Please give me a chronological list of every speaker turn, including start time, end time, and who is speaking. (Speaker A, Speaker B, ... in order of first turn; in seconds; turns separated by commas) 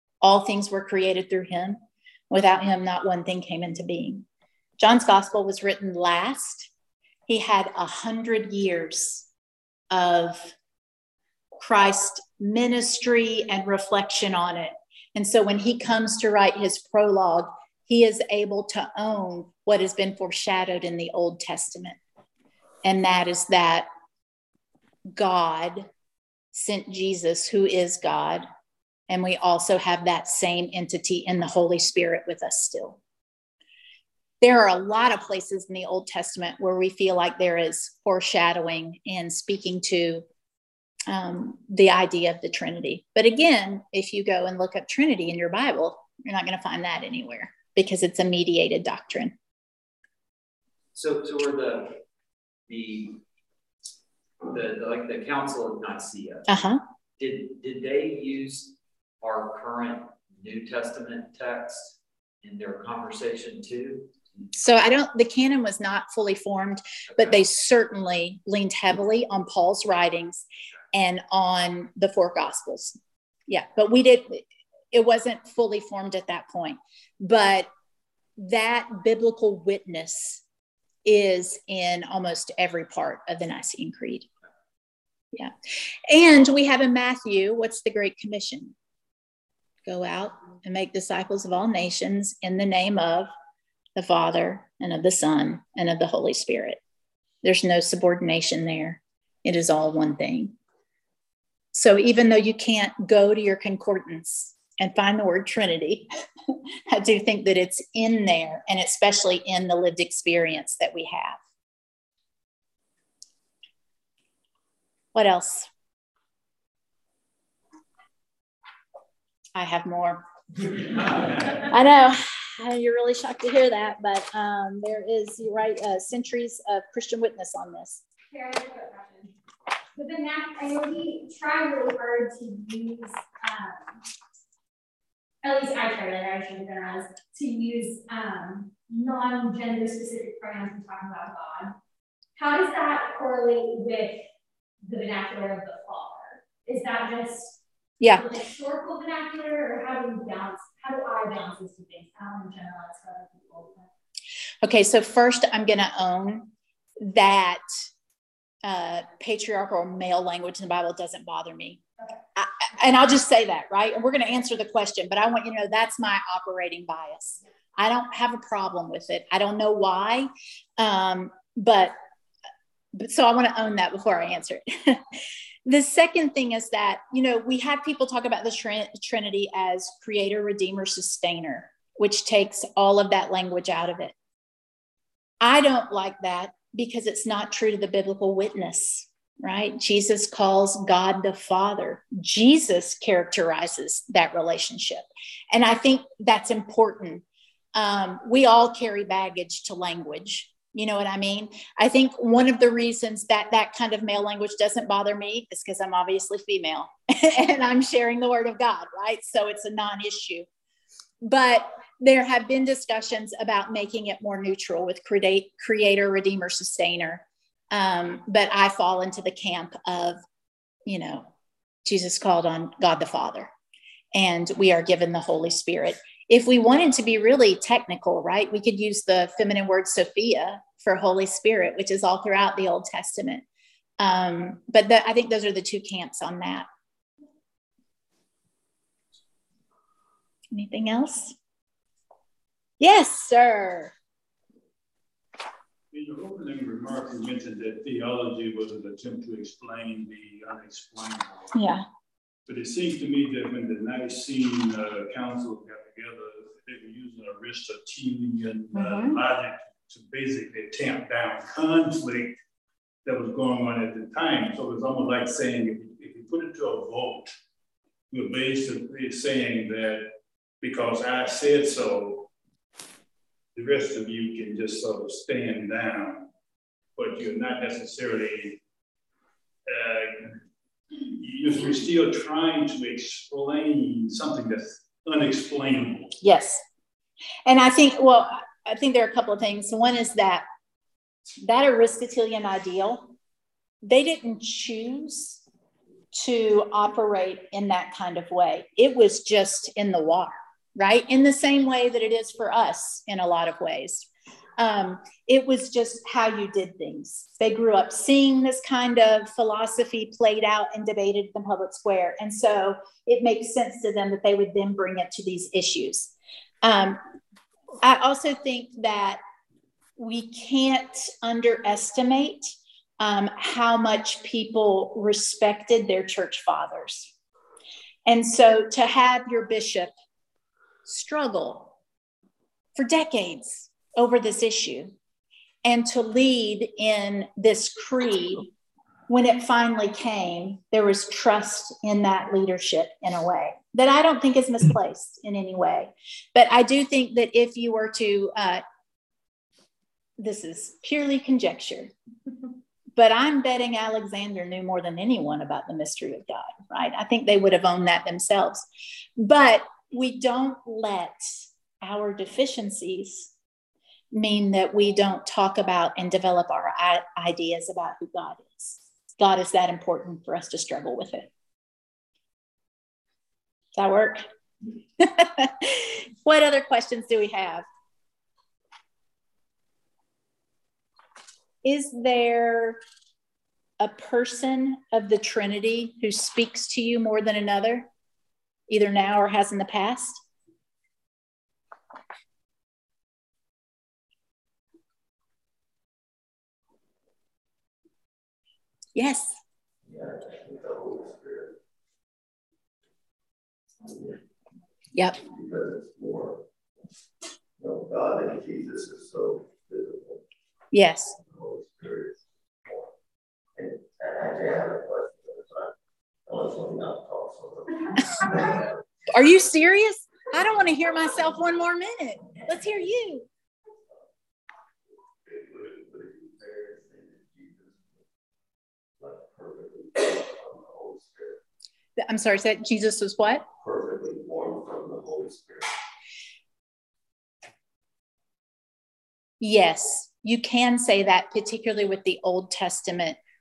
Speaker A: 0.2-4.2, Speaker A: 4.8-6.7, Speaker A: 7.3-9.3, Speaker A: 9.9-10.5, Speaker A: 11.6-22.0, Speaker A: 22.8-23.9, Speaker A: 25.1-25.9, Speaker A: 26.5-28.4, Speaker A: 29.1-33.0, Speaker A: 34.4-40.2, Speaker A: 41.1-49.3, Speaker B: 50.9-52.0, Speaker B: 52.7-53.2, Speaker B: 54.4-56.5, Speaker A: 56.5-56.8, Speaker B: 57.2-64.4, Speaker A: 64.5-73.0, Speaker A: 73.5-77.7, Speaker A: 78.4-80.4, Speaker A: 81.0-84.3, Speaker A: 86.1-88.7, Speaker A: 89.8-93.3, Speaker A: 94.0-96.8, Speaker A: 97.4-100.5, Speaker A: 101.7-106.1, Speaker A: 106.9-111.4, Speaker A: 115.1-115.7, Speaker A: 119.5-120.2, Speaker A: 121.3-128.0, Speaker C: 128.3-129.3, Speaker C: 129.9-134.0, Speaker C: 135.4-141.7, Speaker C: 142.4-144.2, Speaker C: 144.8-153.8, Speaker A: 148.0-148.3, Speaker A: 154.6-156.5, Speaker A: 157.0-157.6, Speaker A: 158.6-161.8, Speaker A: 162.3-171.9, Speaker A: 172.9-175.0, Speaker A: 175.7-184.1, Speaker A: 185.4-197.2, Speaker A: 197.7-210.4, Speaker A: 211.2-220.2, Speaker A: 220.8-221.3, Speaker A: 221.8-223.5, Speaker A: 224.1-233.4, Speaker A: 234.0-236.7, Speaker A: 240.5-241.3, Speaker A: 242.8-243.9, Speaker D: 245.9-251.5, Speaker A: 251.5-251.8, Speaker D: 252.4-262.3, Speaker A: 258.7-259.2, Speaker D: 263.0-267.3, Speaker D: 268.1-270.1, Speaker D: 270.6-272.3, Speaker D: 273.5-276.3, Speaker D: 276.9-278.6, Speaker D: 279.6-286.1, Speaker A: 286.2-286.6, Speaker A: 287.4-290.4, Speaker A: 291.4-293.1, Speaker A: 293.8-295.4, Speaker A: 296.1-316.1, Speaker A: 316.6-317.0, Speaker A: 317.8-319.2, Speaker A: 320.0-327.1, Speaker A: 328.1-329.9, Speaker A: 330.8-331.7, Speaker A: 332.8-334.9, Speaker A: 335.6-338.5, Speaker A: 339.1-348.6, Speaker A: 350.2-351.9, Speaker A: 352.9-358.6, Speaker A: 359.2-363.3, Speaker A: 364.1-371.3, Speaker A: 373.8-374.2, Speaker A: 375.0-377.6, Speaker A: 381.6-382.8, Speaker A: 383.8-387.9, Speaker A: 388.7-390.2, Speaker A: 398.9-399.4, Speaker E: 399.9-401.6, Speaker E: 403.8-404.2, Speaker E: 405.2-406.4, Speaker E: 407.6-410.2, Speaker A: 410.7-411.1, Speaker E: 411.2-412.9, Speaker E: 413.6-415.7, Speaker E: 416.3-418.7, Speaker A: 419.1-423.2, Speaker E: 425.2-428.0, Speaker E: 429.0-431.4, Speaker A: 432.0-433.4, Speaker E: 433.6-435.7, Speaker A: 439.4-443.2